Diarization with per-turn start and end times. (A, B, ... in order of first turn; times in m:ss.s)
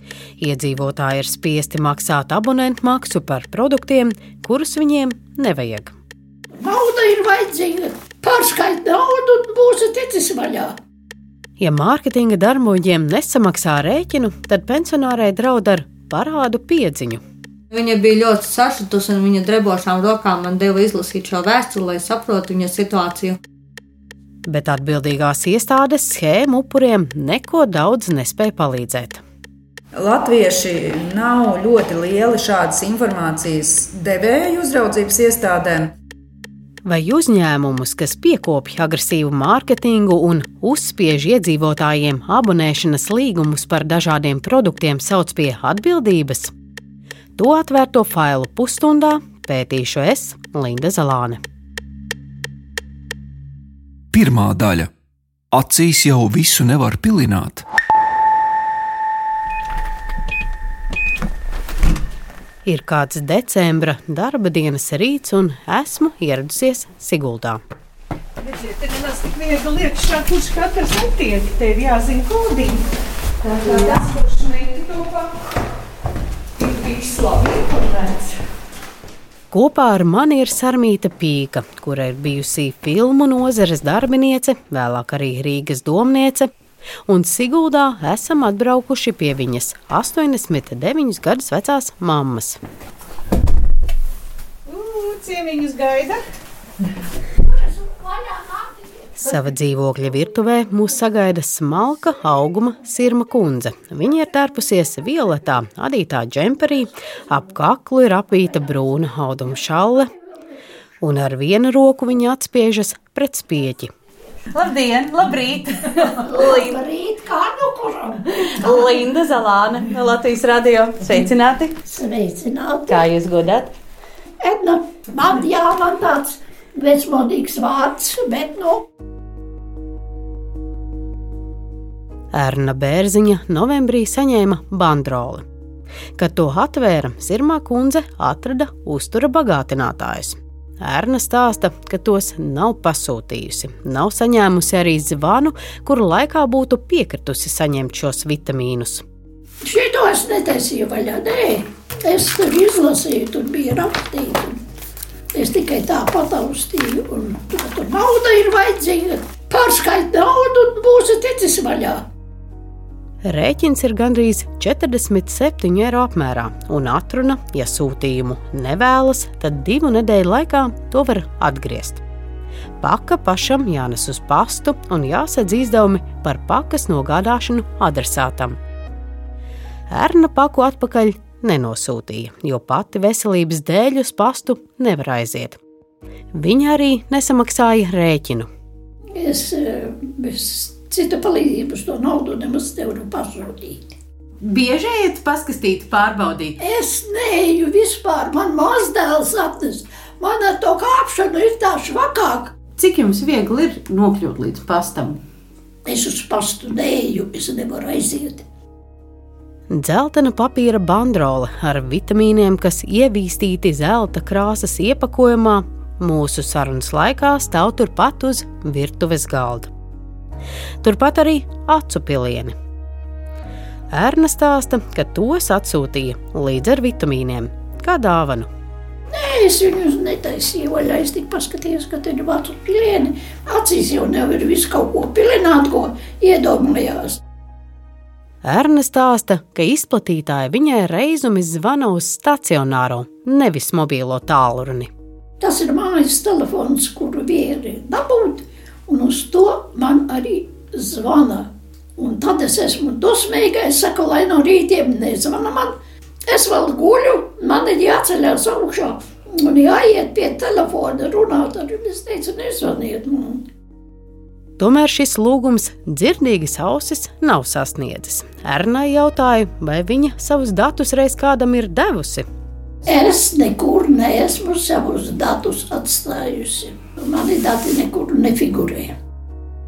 0:00.4-0:05.9 A
0:06.6-0:10.8 B
0:11.6-0:17.2 A
0:17.7-0:23.4 C
0:24.4-0:29.2 A
0:30.0-0:35.9 D
0:36.8-0:46.5 A
0:47.4-0:51.4 A
0:54.1-0:54.9 E
0:55.5-0:57.6 E
1:02.6-1:07.6 A
1:08.4-1:12.9 F
1:13.4-1:15.4 F
1:16.6-1:18.4 F
1:19.5-1:26.5 A
1:27.1-1:32.6 A
1:34.7-1:36.2 F
1:37.5-1:38.8 B
1:39.2-1:50.1 A
1:51.0-1:53.9 A
1:54.5-1:56.8 G
1:56.2-1:58.8 B
1:58.4-2:01.7 G
2:01.8-2:03.0 B
2:02.9-2:03.7 G
2:04.4-2:08.8 B
2:12.3-2:15.4 A
2:16.2-2:29.0 A
2:29.6-2:34.6 B
2:35.3-2:42.0 B
2:43.2-2:52.0 A
2:52.8-2:58.6 A
2:59.9-3:05.6 A
3:06.3-3:08.5 A
3:09.2-3:13.9 B
3:14.4-3:16.6 G
3:16.6-3:22.5 B
3:22.7-3:25.2 G
3:25.8-3:28.4 B
3:29.7-3:39.7 A
3:40.8-3:42.5 A
3:43.9-3:48.5 A
3:49.1-3:57.2 B
3:58.4-4:04.9 A
4:05.4-4:15.8 B
4:16.3-4:23.4 B
4:24.6-4:32.2 A
4:32.8-4:39.0 B